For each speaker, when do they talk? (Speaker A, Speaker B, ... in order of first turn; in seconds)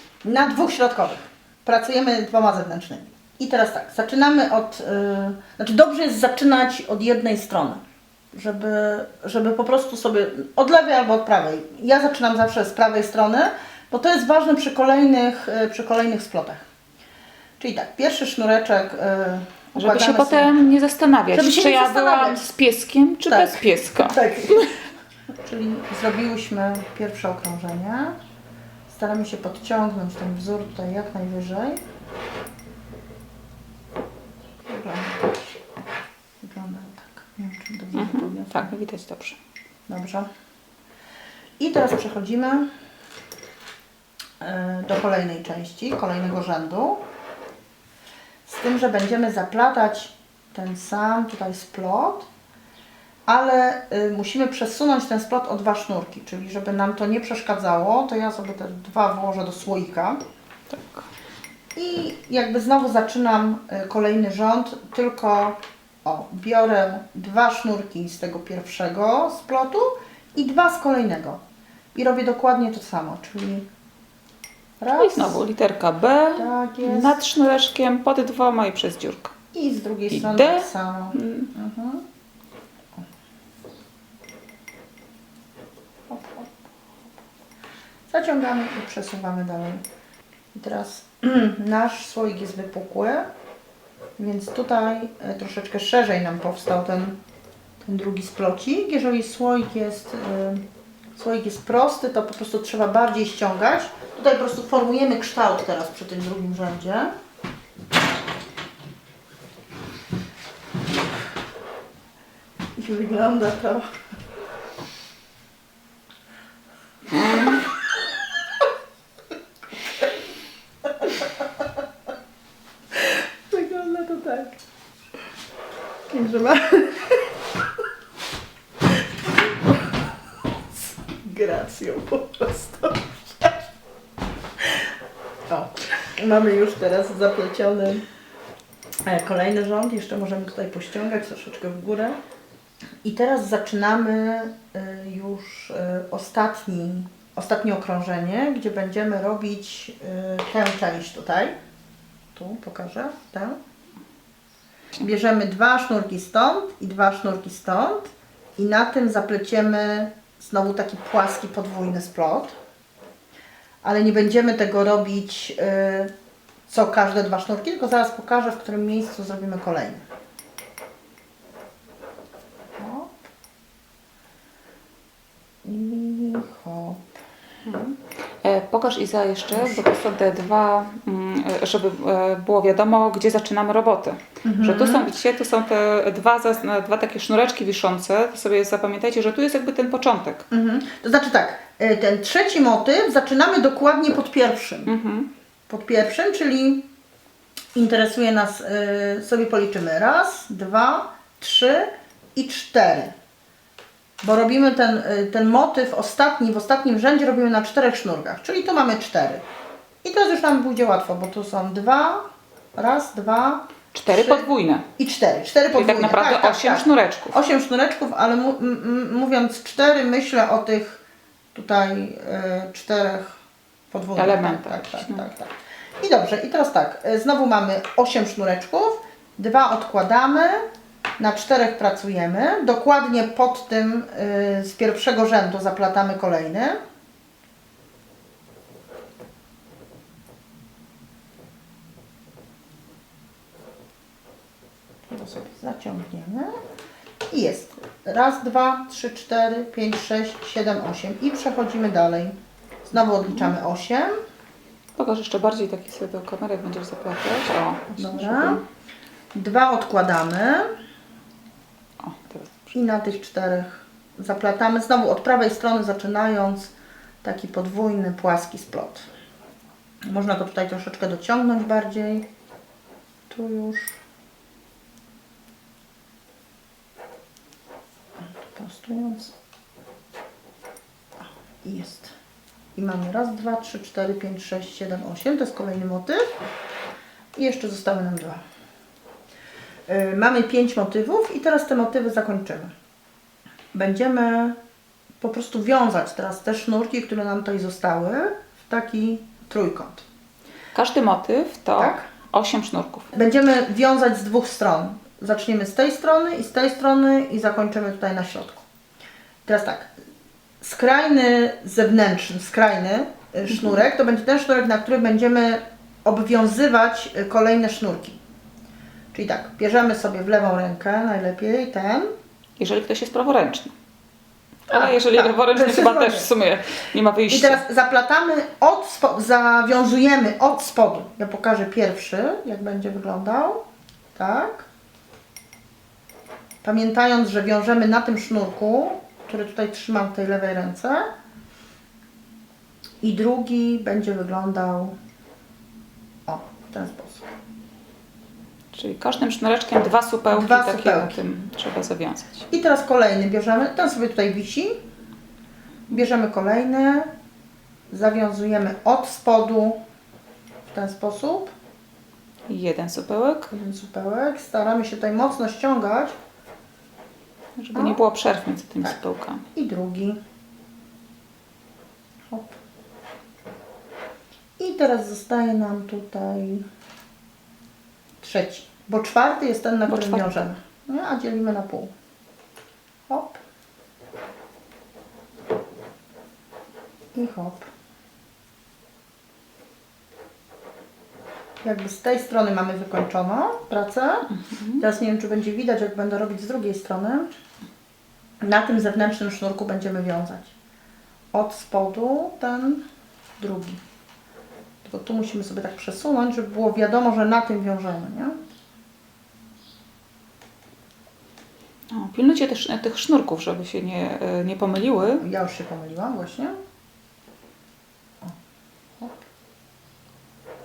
Speaker A: 0.2-16.6, 17.6-20.5, 21.3-22.5, 23.3-24.8, 25.3-28.2, 28.9-31.8, 34.6-35.6, 36.4-38.7, 39.9-40.3, 41.6-42.7, 44.4-47.0, 48.5-52.3, 53.3-60.2, 61.7-71.4, 71.9-73.7, 74.8-75.4, 76.3-77.2, 79.5-82.0, 86.1-86.5, 88.1-89.8, 90.5-93.3, 94.2-97.2, 97.8-100.6, 101.2-107.1, 112.8-113.9, 117.3-117.6, 120.8-121.6, 122.9-124.6, 126.1-127.4, 128.8-130.0, 130.7-133.7, 134.6-134.9, 135.5-138.0, 139.0-142.2, 143.0-151.6, 152.3-153.6, 155.0-162.5, 163.8-166.1, 166.7-170.0, 172.8-173.2, 175.6-177.0, 179.5-179.9, 184.4-185.1, 190.5-194.9, 195.7-196.9, 197.7-203.1, 204.2-209.4, 210.0-212.2, 212.7-214.4, 215.0-221.0, 221.5-223.4, 223.9-230.6, 231.2-236.8, 245.1-246.5, 247.3-254.1, 257.9-258.6, 259.3-260.7, 262.7-266.7, 267.2-269.1, 270.1-272.2, 273.3-274.0, 278.2-279.3, 281.2-282.1, 282.7-286.2, 287.4-288.4, 289.9-292.7, 293.7-294.6, 295.2-300.0, 301.8-302.1, 303.1-308.6, 309.4-309.9, 310.6-318.2, 319.1-322.1, 324.7-326.3, 327.3-333.6, 334.1-334.7, 336.6-341.1, 343.0-344.9, 346.2-347.3, 350.3-351.2, 352.5-354.8, 355.9-357.1, 357.9-359.8, 360.7-361.5, 363.5-366.1, 367.7-368.0, 369.5-370.2, 372.3-372.6, 374.6-376.6, 378.2-381.9, 383.1-383.4, 387.1-387.7, 391.6-397.3, 398.4-400.5, 401.3-402.8, 403.4-403.8, 404.8-408.4, 415.2-416.5
Speaker B: 19.8-24.7, 37.9-39.4, 60.7-61.0, 74.9-79.3, 80.1-81.5, 117.1-117.6, 177.6-190.4, 194.8-195.3, 213.9-214.8, 215.7-217.4, 224.2-225.3, 253.2-253.5, 255.0-258.6, 262.0-262.7, 300.7-303.1, 322.6-323.7, 324.7-327.6, 348.7-352.5, 362.5-363.5, 367.6-369.4, 379.9-380.3, 394.4-394.8, 411.9-415.2